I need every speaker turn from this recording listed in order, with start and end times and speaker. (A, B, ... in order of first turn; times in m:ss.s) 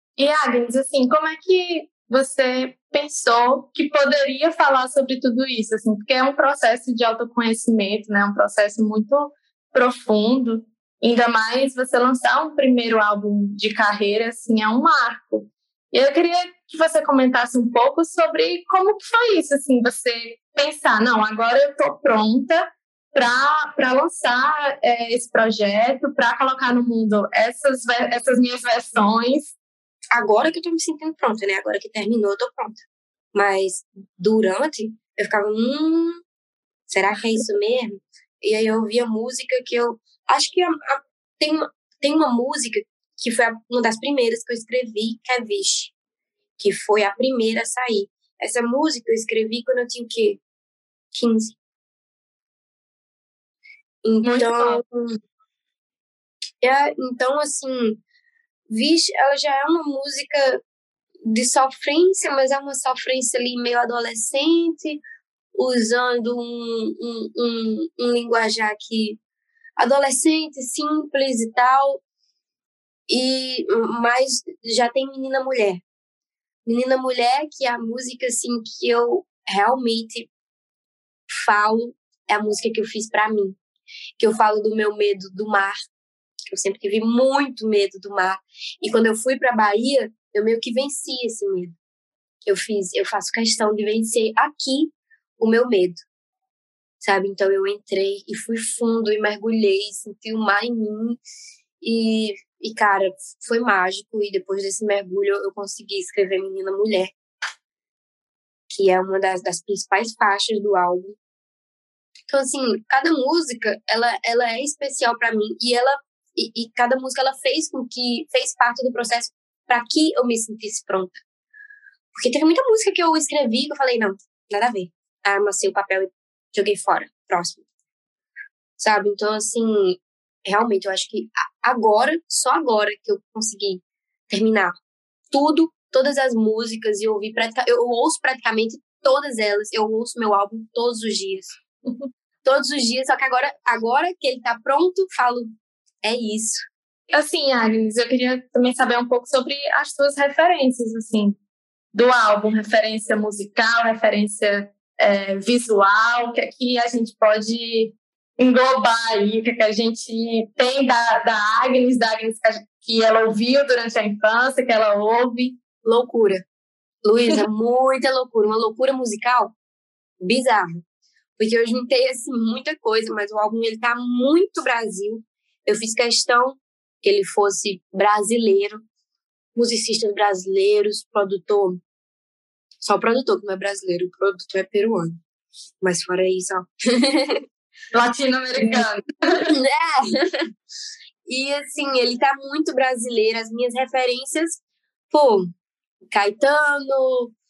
0:00.2-0:29.5 A
0:30.1-0:32.8 B
0:33.3-0:36.2 B
0:36.9-0:45.9 B
0:46.6-0:50.4 B
0:51.1-0:51.6 B
0:54.0-0:55.2 B
0:54.2-0:54.8 A
0:56.6-0:58.0 B
0:58.7-1:00.6 B
1:01.3-1:05.0 B
1:05.5-1:09.2 B
1:09.8-1:12.0 B
1:13.1-1:15.8 B
1:16.6-1:20.3 B
1:21.4-1:23.6 B
1:24.2-1:25.7 B
1:26.5-1:31.8 B
1:32.4-1:36.0 B
1:37.0-1:41.2 B
1:41.8-1:47.1 B
1:48.7-1:51.2 B
1:52.3-2:01.2 B
2:02.1-2:07.6 B
2:08.8-2:14.7 B
2:15.3-2:21.5 B
2:22.4-2:25.5 B
2:26.0-2:26.6 B
2:27.1-2:31.4 A
2:31.9-2:45.6 A
2:45.8-2:46.4 B
2:47.0-2:49.5 B
2:50.2-2:50.8 B
2:51.4-2:58.8 B
2:59.5-3:01.8 B
3:02.9-3:05.2 B
3:05.8-3:07.4 B
3:07.9-3:09.5 A
3:09.6-3:10.3 B
3:11.2-3:14.6 B
3:15.1-3:15.5 B
3:16.1-3:17.3 B